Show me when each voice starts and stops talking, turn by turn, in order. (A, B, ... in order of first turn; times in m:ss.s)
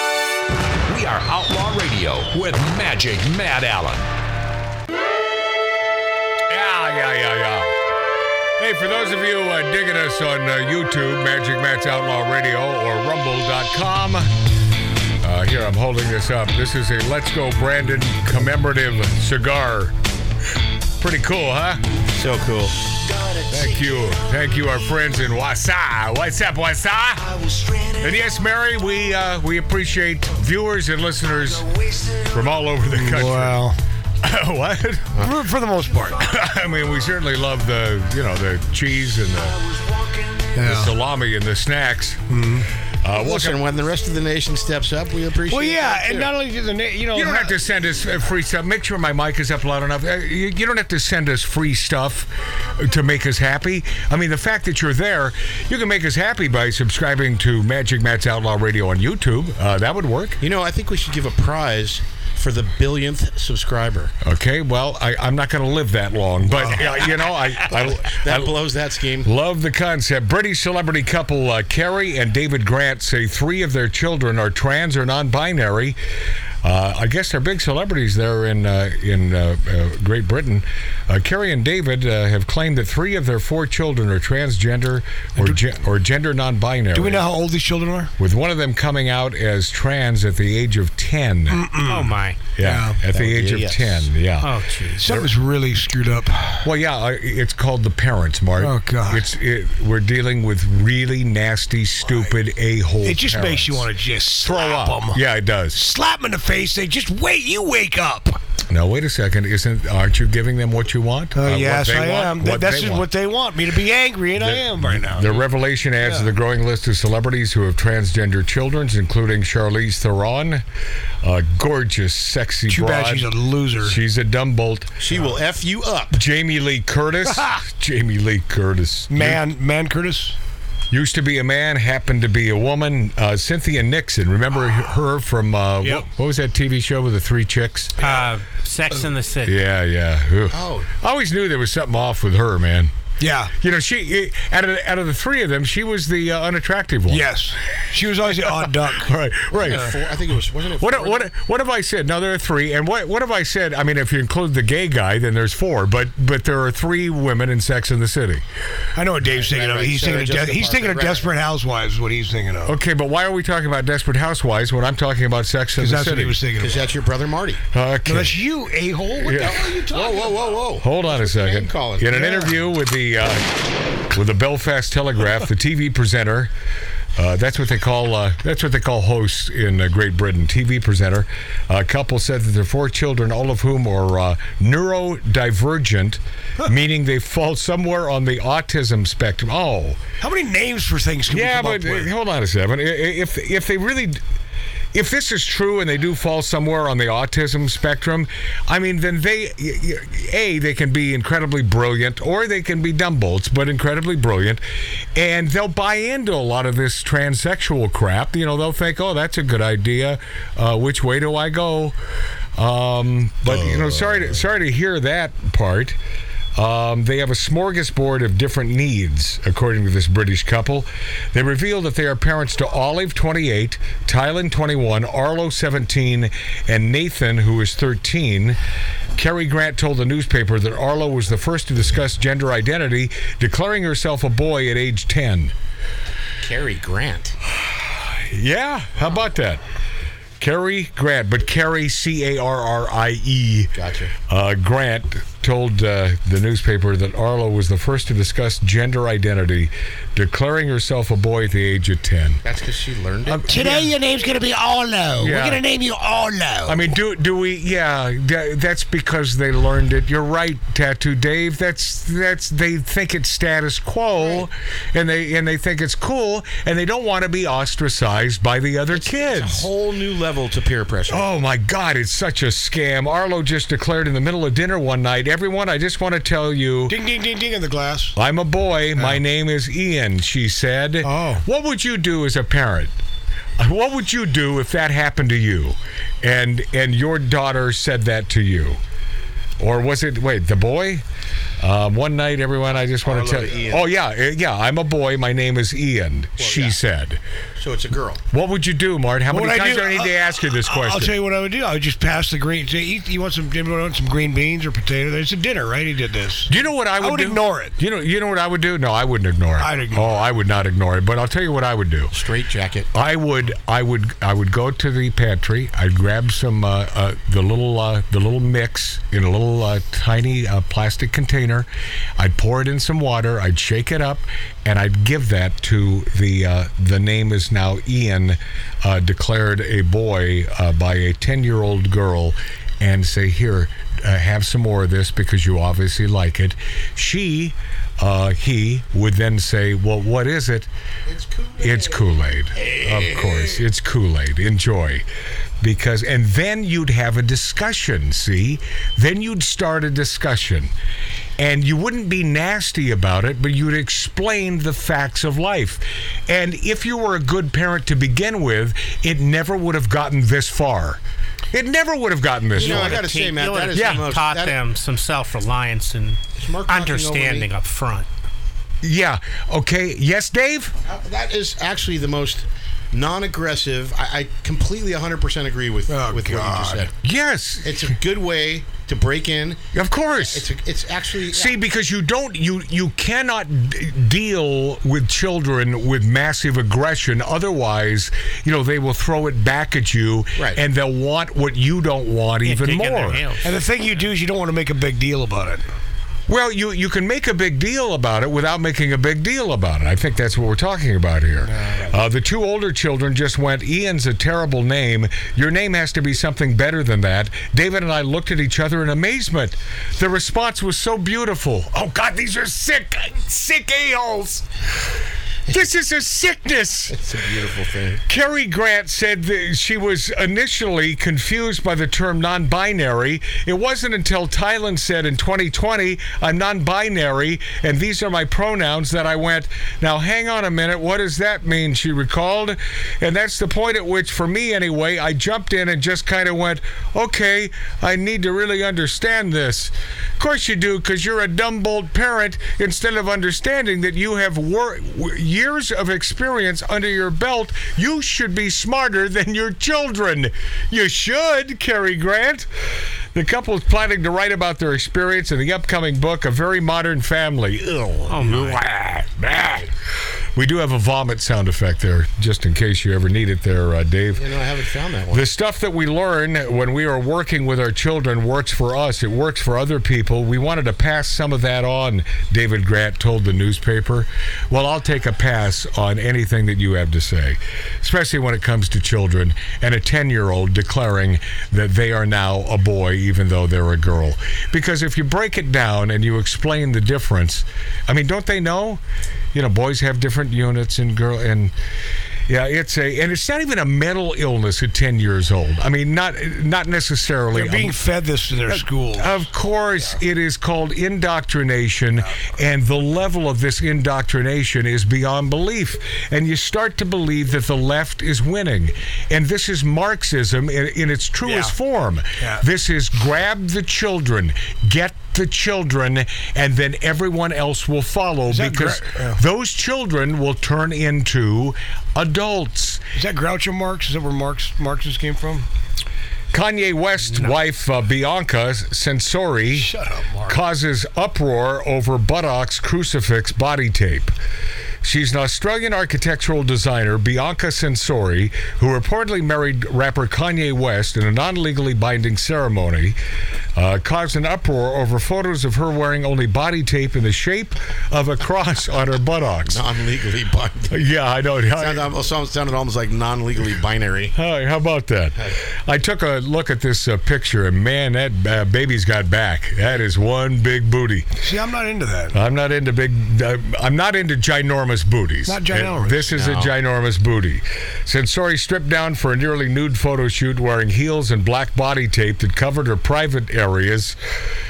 0:00.9-0:04.1 A
0:06.5-0:07.8 B
0:08.6-0:14.3 B
0:15.2-0:19.9 B
0:21.0-0:21.8 B
0:22.1-0:22.8 C
0:23.5-0:33.6 B
0:32.9-0:33.8 D
0:34.2-0:35.3 B
0:35.2-0:36.2 D
0:36.2-0:39.6 B
0:40.5-0:40.9 D
0:40.6-0:42.3 B
0:42.3-0:42.7 D
0:43.0-0:43.6 B
0:43.1-0:46.3 C
0:45.5-0:47.6 D
0:47.1-1:00.4 B
1:00.4-1:04.1 C
1:04.2-1:08.6 B
1:06.6-1:07.1 D
1:07.7-1:09.3 C
1:09.2-1:16.0 B
1:16.6-1:27.3 B
1:26.9-1:28.1 D
1:28.2-1:31.6 B
1:31.5-1:33.0 D
1:31.9-1:32.4 E
1:32.6-1:34.5 B
1:33.1-1:34.1 C
1:34.4-1:35.1 E
1:35.0-1:36.7 D
1:35.0-1:35.3 B
1:36.6-1:43.9 B
1:38.6-1:39.3 D
1:43.0-1:48.4 D
1:44.4-1:45.8 B
1:48.7-1:53.1 B
1:51.4-1:55.5 D
1:54.4-2:00.6 B
1:56.0-1:56.3 D
2:01.2-2:05.0 B
2:02.7-2:04.0 D
2:05.0-2:06.2 C
2:06.1-2:09.4 B
2:07.3-2:07.6 D
2:09.1-2:10.4 D
2:10.9-2:17.9 B
2:18.0-2:19.6 E
2:19.4-2:22.9 B
2:20.5-2:20.9 C
2:23.2-2:23.5 D
2:23.6-2:27.3 B
2:27.1-2:29.1 D
2:28.4-2:30.0 B
2:29.5-2:31.3 C
2:30.8-2:38.4 B
2:39.0-2:42.8 D
2:39.3-2:41.3 C
2:42.7-2:46.4 B
2:45.8-2:46.9 D
2:46.6-2:47.6 C
2:47.7-2:48.4 B
2:48.1-2:50.4 D
2:49.2-2:49.6 B
2:49.4-2:52.1 C
2:50.8-2:53.4 B
2:52.1-2:52.6 D
2:54.1-2:56.5 B
2:57.2-3:10.0 B
3:10.2-3:12.1 D
3:11.3-3:14.2 B
3:14.9-3:24.6 B
3:25.2-3:32.0 B
3:32.6-3:36.0 B
3:36.6-3:48.6 B
3:49.2-3:55.5 B
3:56.4-3:57.4 C
3:57.6-3:59.6 B
4:00.4-4:03.8 B
4:03.8-4:04.1 C
4:04.3-4:12.4 B
4:12.4-4:13.4 C
4:13.3-4:14.0 B
4:13.4-4:16.9 D
4:15.2-4:15.6 B
4:16.7-4:29.7 B
4:28.9-4:31.3 C
4:31.1-4:37.0 B
4:36.9-4:38.2 D
4:38.2-4:42.9 B
4:41.0-4:41.4 D
4:43.6-4:48.8 B
4:49.6-4:51.0 B
4:51.6-4:57.2 B
4:53.1-4:53.4 D
4:53.2-4:53.8 C
4:56.4-4:56.8 C
4:57.6-4:58.2 C
4:58.3-5:01.1 B
4:59.3-5:07.8 D
5:06.5-5:12.2 B
5:09.6-5:10.1 D
5:12.1-5:12.9 C
5:12.9-5:40.7 B
5:41.1-5:42.0 C
5:41.6-5:45.0 B
5:42.6-5:43.6 C
5:45.6-5:50.7 B
5:51.4-6:01.0 B
6:01.5-6:03.0 B
6:02.6-6:04.6 C
6:02.6-6:08.1 E
6:03.8-6:04.0 B
6:06.4-6:07.5 C
6:08.8-6:10.8 B
6:10.8-6:16.9 C
6:15.9-6:16.9 D
6:17.0-6:17.8 B
6:17.6-6:19.6 C
6:19.7-6:20.5 B
6:20.2-6:21.6 C
6:21.3-6:33.3 B
6:32.4-6:33.6 E
6:33.4-6:35.7 D
6:36.3-6:54.5 B
6:41.4-6:41.9 D
6:55.5-6:57.0 B
6:56.9-6:58.0 C
6:58.1-7:32.5 B
7:33.1-7:39.7 B
7:38.1-7:38.6 E
7:40.4-7:44.2 B
7:44.2-7:45.2 C
7:45.1-8:08.8 B
8:09.3-8:11.5 B
8:12.3-8:17.8 B
8:17.3-8:19.2 D
8:18.4-8:42.8 B
8:31.2-8:31.5 D
8:32.2-8:32.4 D
8:38.3-8:39.2 D
8:42.9-8:45.5 D
8:46.3-8:49.7 B
8:49.5-8:50.4 D
8:50.3-8:54.1 B
8:54.8-9:03.0 B
9:03.6-9:09.6 B
9:09.5-9:10.7 C
9:10.7-9:11.9 B
9:11.6-9:14.1 C
9:14.1-9:21.1 B
9:21.2-9:22.2 D
9:22.1-9:34.0 B
9:25.2-9:26.2 D
9:26.1-9:26.5 C